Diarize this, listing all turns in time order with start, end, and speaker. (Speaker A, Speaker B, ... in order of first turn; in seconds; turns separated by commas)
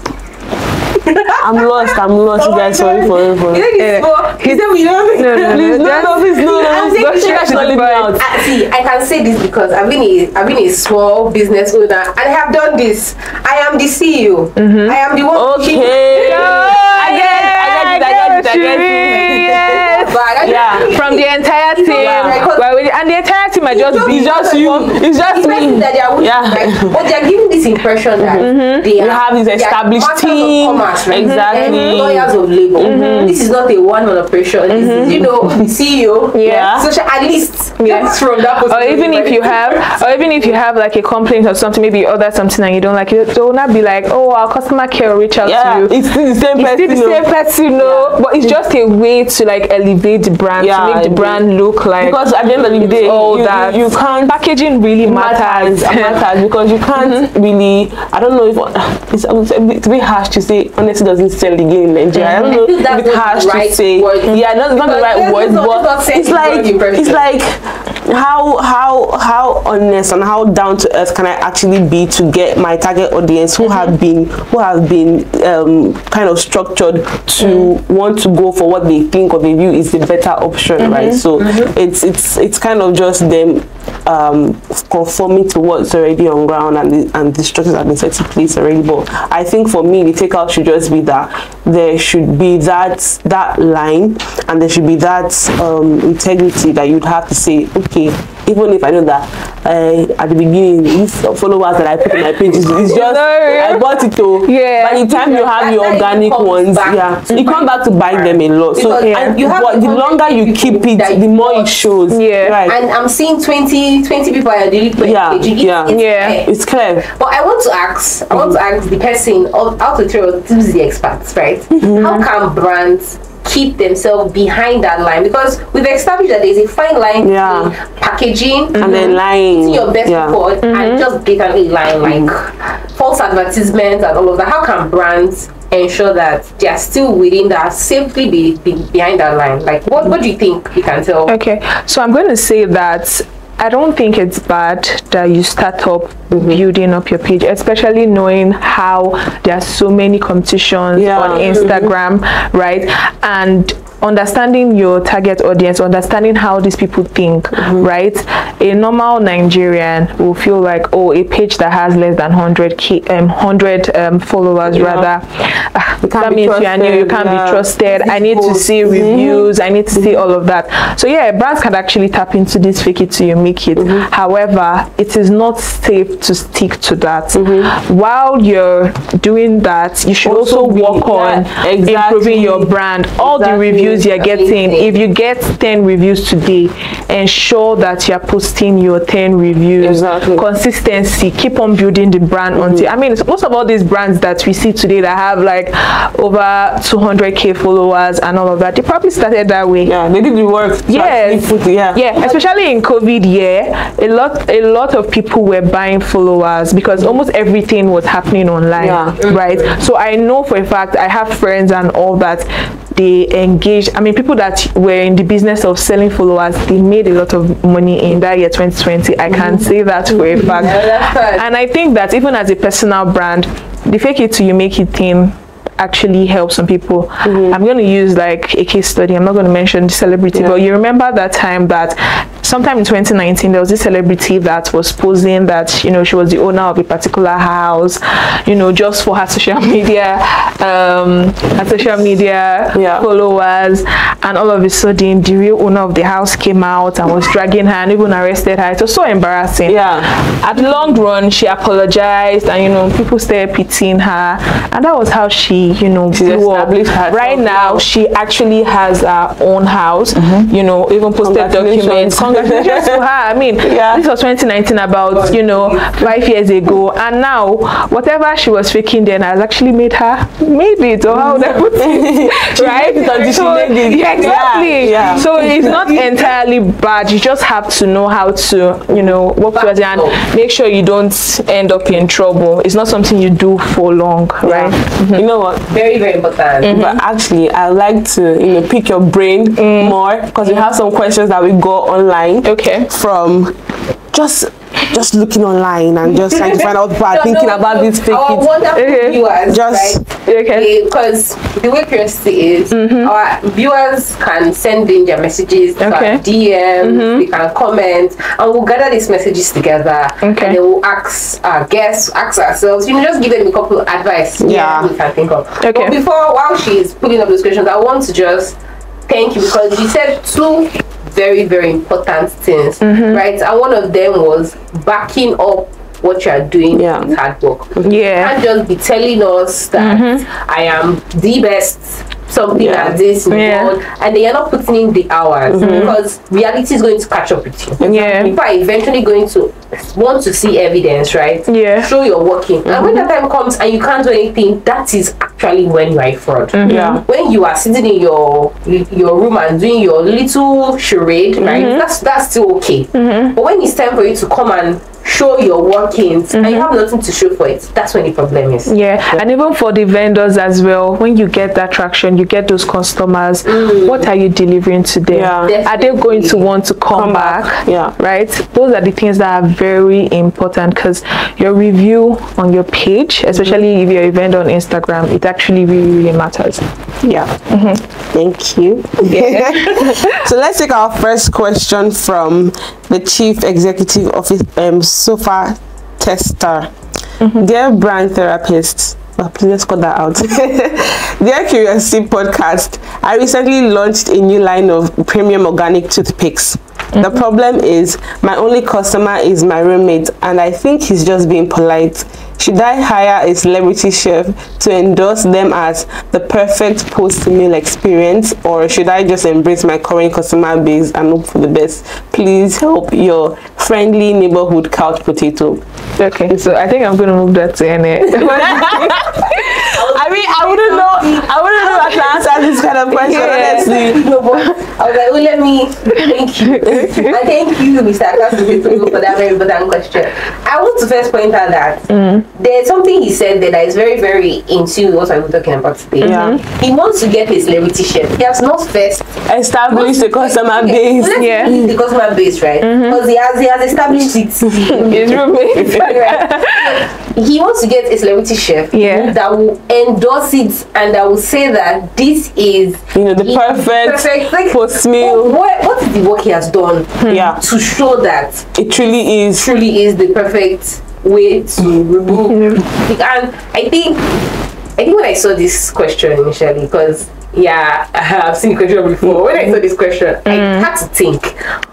Speaker A: 1.0-17.2, Speaker B: 1.4-3.7, Speaker C: 3.8-4.6, Speaker C: 5.1-8.2, Speaker B: 5.3-8.4, Speaker C: 14.6-15.0, Speaker B: 15.3-20.9, Speaker C: 16.2-20.2, Speaker A: 19.7-22.7, Speaker C: 20.8-24.5, Speaker B: 21.9-22.4, Speaker A: 23.7-40.5, Speaker B: 24.0-27.0, Speaker B: 28.2-33.4, Speaker C: 28.4-28.9, Speaker C: 31.1-32.1, Speaker C: 32.8-33.4, Speaker C: 34.7-35.3, Speaker B: 34.8-35.7, Speaker C: 36.3-36.8, Speaker B: 36.4-36.9, Speaker C: 37.8-46.0, Speaker B: 45.4-48.6, Speaker C: 46.5-56.2, Speaker B: 50.6-54.4, Speaker B: 55.0-112.8, Speaker C: 57.0-57.3, Speaker C: 62.1-62.6, Speaker A: 62.4-67.3, Speaker C: 73.7-73.9, Speaker C: 77.4-77.7, Speaker C: 80.8-81.2, Speaker A: 81.4-81.7, Speaker C: 102.7-105.1, Speaker A: 105.0-111.9, Speaker C: 109.0-109.4, Speaker C: 112.1-112.6, Speaker A: 112.7-116.5, Speaker B: 115.0-117.0, Speaker C: 115.9-116.4, Speaker A: 117.0-141.3, Speaker B: 121.8-122.3, Speaker B: 127.2-127.7, Speaker C: 128.8-129.2, Speaker B: 128.8-130.4, Speaker C: 130.7-131.1, Speaker C: 141.3-200.0, Speaker B: 146.3-146.6, Speaker B: 150.9-151.9, Speaker A: 151.4-151.6, Speaker B: 157.6-157.9, Speaker B: 164.7-165.1, Speaker B: 166.0-168.2, Speaker A: 168.2-168.6, Speaker B: 168.7-170.2, Speaker B: 173.8-174.1, Speaker B: 177.3-177.7, Speaker B: 180.2-184.1, Speaker A: 184.2-185.0, Speaker B: 189.8-190.5, Speaker B: 192.6-192.9, Speaker B: 199.8-202.0, Speaker C: 200.9-285.2, Speaker A: 202.2-202.4, Speaker B: 208.8-209.2, Speaker A: 209.2-209.8, Speaker B: 219.3-219.7, Speaker A: 220.4-221.4, Speaker B: 227.2-227.6, Speaker B: 242.7-243.1, Speaker B: 249.7-250.1, Speaker B: 256.1-257.9, Speaker B: 260.2-260.5, Speaker B: 261.2-263.0, Speaker B: 263.6-264.0, Speaker A: 265.1-265.9, Speaker B: 271.1-275.8, Speaker A: 273.1-276.1, Speaker A: 279.5-280.2, Speaker B: 284.4-285.6, Speaker A: 285.7-286.7, Speaker C: 286.6-287.0, Speaker B: 286.6-293.6, Speaker C: 289.6-290.6, Speaker C: 292.4-292.9, Speaker B: 294.1-298.5, Speaker A: 296.5-358.7, Speaker C: 298.8-299.2, Speaker B: 299.5-300.1, Speaker C: 300.3-300.7, Speaker C: 302.7-303.1, Speaker C: 305.8-306.2, Speaker C: 306.8-307.2, Speaker C: 310.2-310.6, Speaker B: 314.4-314.9, Speaker C: 315.6-315.9, Speaker C: 322.8-323.2, Speaker B: 326.7-327.1, Speaker B: 327.8-328.0, Speaker C: 327.8-328.3, Speaker C: 329.8-330.2, Speaker B: 332.5-333.0, Speaker C: 333.3-333.7, Speaker B: 335.5-336.0, Speaker C: 335.6-336.0, Speaker B: 337.8-338.3, Speaker C: 337.8-338.3, Speaker C: 341.5-341.9, Speaker C: 346.5-347.0, Speaker B: 346.6-347.0, Speaker C: 351.4-351.8, Speaker C: 352.9-353.4, Speaker C: 356.4-356.7, Speaker C: 358.7-376.6, Speaker A: 363.4-364.1, Speaker B: 365.1-365.5, Speaker A: 365.4-366.5, Speaker B: 366.9-367.9, Speaker B: 377.0-377.3, Speaker C: 377.5-377.8, Speaker B: 378.1-386.7, Speaker C: 379.1-380.2, Speaker C: 387.2-387.5, Speaker B: 387.4-415.6, Speaker C: 416.0-419.2, Speaker B: 418.2-424.0, Speaker A: 419.6-439.1, Speaker C: 423.0-424.5, Speaker C: 426.6-427.1, Speaker C: 431.9-432.3, Speaker C: 436.0-436.4, Speaker B: 436.0-436.4, Speaker B: 439.3-441.7, Speaker A: 439.7-458.6, Speaker C: 441.1-441.6, Speaker C: 442.6-443.0, Speaker C: 444.7-446.8, Speaker C: 448.7-449.1, Speaker B: 452.9-455.4, Speaker C: 457.0-457.3, Speaker B: 457.1-457.4, Speaker B: 458.6-459.5, Speaker A: 459.3-464.2, Speaker A: 464.8-471.4, Speaker B: 469.1-469.4, Speaker C: 470.3-470.7